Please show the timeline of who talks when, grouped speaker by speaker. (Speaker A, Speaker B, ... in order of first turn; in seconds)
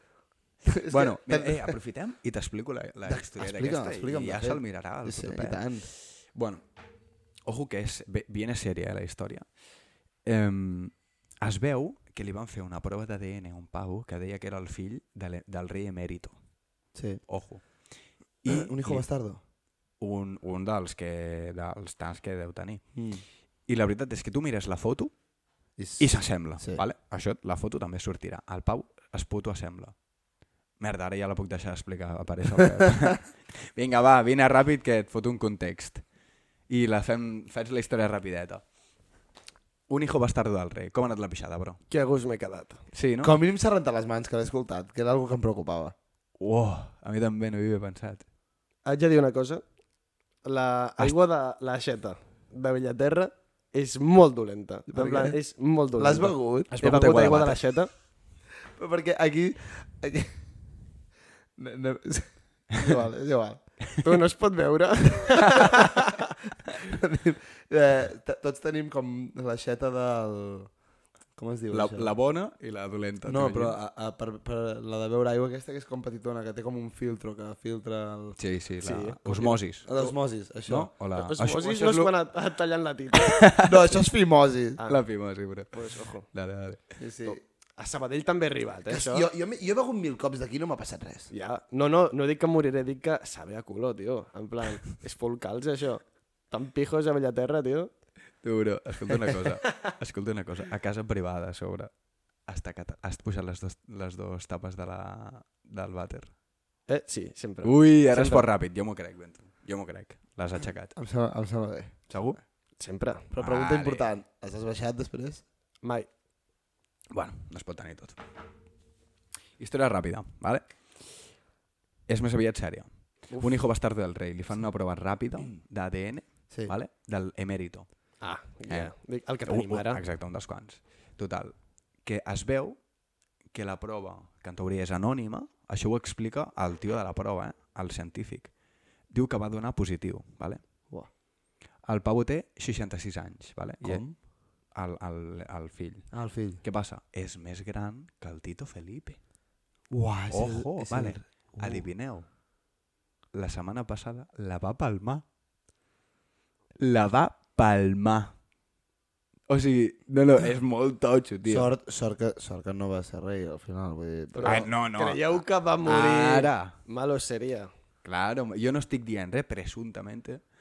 Speaker A: 0.6-1.7, 3.1-5.9, 16.9-17.2, 18.5-19.4, 22.9-23.2, 25.8-26.8, 43.2-45.9, 54.9-55.4, 56.0-56.7, 58.7-60.4, 61.6-63.6, 66.7-70.7, 71.3-72.1, 73.2-78.4, 79.8-80.9, 83.6-84.8, 87.0-87.4, 88.9-91.3, 110.9-111.9, 113.3-115.4, 143.8-144.2, 146.1-146.6, 149.9-151.8, 161.4-164.7
Speaker B: 0.9-6.6, 7.5-9.5, 10.2-16.4, 17.3-17.9, 18.4-19.0, 20.0-23.0, 23.7-25.1, 26.0-30.0, 30.8-36.0, 36.7-38.6, 39.9-41.8, 42.9-43.4, 46.4-48.2, 56.7-57.7, 71.7-73.8, 78.4-79.9, 80.7-82.1, 83.1-83.8, 84.9-86.8, 98.4-101.9, 102.5-106.3, 107.6-110.9, 112.1-112.4, 113.4-114.1, 117.1-118.2, 119.6-121.4, 122.1-128.1, 128.7-132.8, 133.5-138.5, 139.1-140.6, 141.8-149.2, 150.3-152.3, 153.3-155.2, 156.8-158.3, 159.5-161.7, 164.4-166.7, 168.0-170.4
Speaker C: 41.9-42.8, 48.8-49.6, 50.4-57.9, 64.0-66.1, 78.8-80.1, 81.1-83.5, 84.8-85.0, 85.7-86.2, 87.2-89.2, 91.3-97.9, 106.9-108.5, 112.8-113.3, 115.8-116.1, 128.2-130.0, 164.3-167.7